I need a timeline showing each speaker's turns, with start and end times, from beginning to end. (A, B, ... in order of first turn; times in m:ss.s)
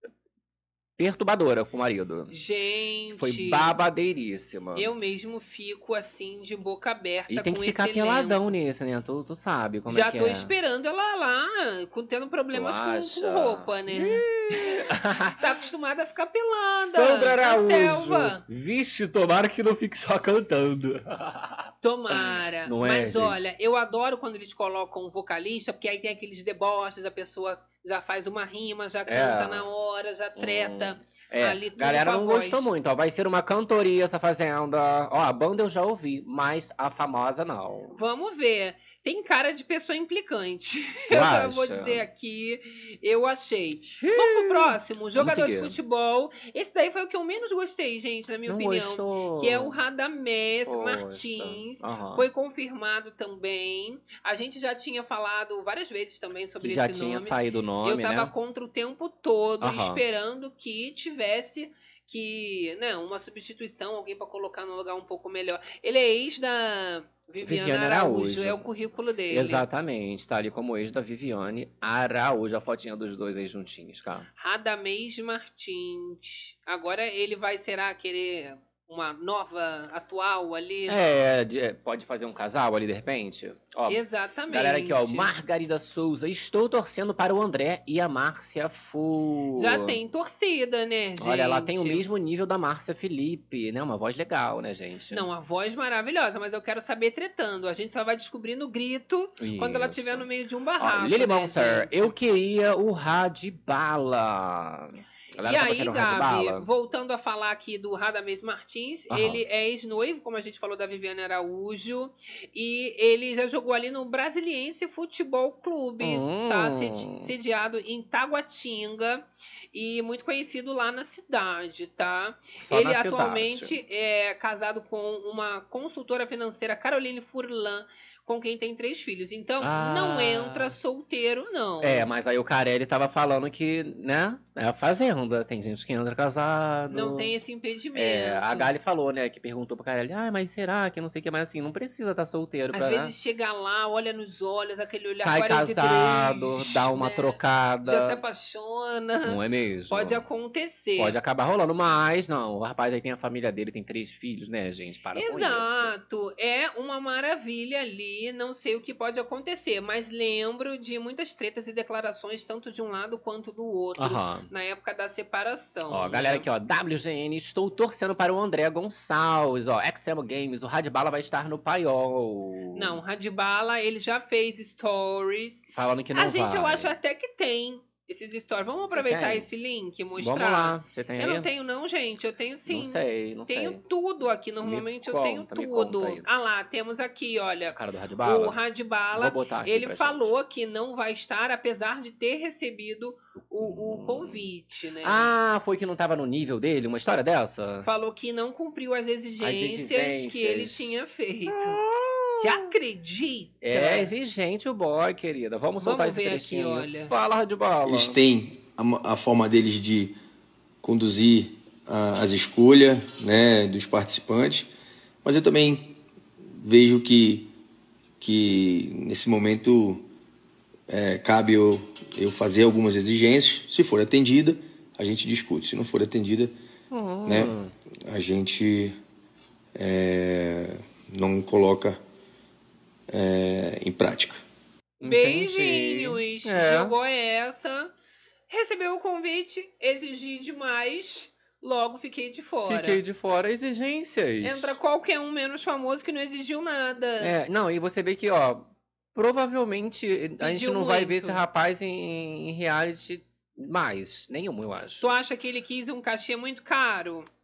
0:01.0-0:02.3 A
0:02.3-0:03.7 B
0:03.1-0:04.9 A
0:04.7-0:08.5 B
0:07.3-0:10.5 A
0:09.9-0:14.2 B
0:12.5-0:15.4 A
0:15.4-0:18.4 B
0:16.8-0:23.4 A
0:21.8-0:32.7 B
0:29.1-0:29.6 A
0:30.4-0:38.0 A
0:37.9-1:09.6 B
0:41.1-0:42.0 A
0:43.8-0:45.8 A
0:48.5-0:49.8 A
0:50.7-0:52.3 A
0:56.6-0:58.3 A
0:59.6-1:00.0 A
1:07.4-1:08.7 A
1:09.3-1:14.3 A
1:14.4-1:21.0 B
1:20.9-1:30.0 A
1:23.9-1:25.3 B
1:29.6-1:32.0 B
1:31.2-1:35.2 A
1:35.1-1:42.1 B
1:39.4-1:40.3 A
1:40.8-1:46.6 A
1:45.4-2:12.1 B
1:49.1-1:49.4 A
1:56.0-1:57.3 A
2:02.6-2:03.8 A
2:09.6-2:10.8 A
2:11.8-2:17.3 A
2:16.9-2:18.7 B
2:17.9-2:23.1 A
2:22.7-2:29.4 B
2:25.1-2:28.2 A
2:29.2-2:30.2 A
2:29.9-2:31.1 B
2:31.0-2:35.9 A
2:35.1-2:46.4 B
2:44.0-2:44.5 A
2:45.9-2:53.0 A
2:52.7-3:15.3 B
2:55.7-2:56.9 A
2:58.9-2:59.5 A
3:00.2-3:01.5 A
3:02.7-3:03.8 A
3:04.6-3:06.3 A
3:07.7-3:08.6 A
3:09.1-3:10.3 A
3:13.6-3:14.4 A
3:15.0-3:17.9 A
3:17.8-3:24.1 B
3:19.4-3:21.0 A
3:21.5-3:22.7 A
3:23.6-3:28.2 A
3:25.8-3:27.1 B
3:27.8-3:30.2 C
3:30.8-3:34.7 C
3:35.2-3:35.9 C
3:36.5-3:37.5 C
3:38.2-3:40.0 C
3:40.9-3:46.5 C
3:46.9-3:47.7 A
3:47.2-3:47.5 C
3:48.0-3:49.0 C
3:49.7-3:52.0 C
3:53.1-3:54.4 C
3:55.0-3:57.0 A
3:55.0-3:57.9 B
3:58.5-4:03.0 B
4:02.7-4:04.8 A
4:04.4-4:07.3 B
4:07.2-4:15.1 A
4:10.4-4:11.4 B
4:15.0-4:17.3 B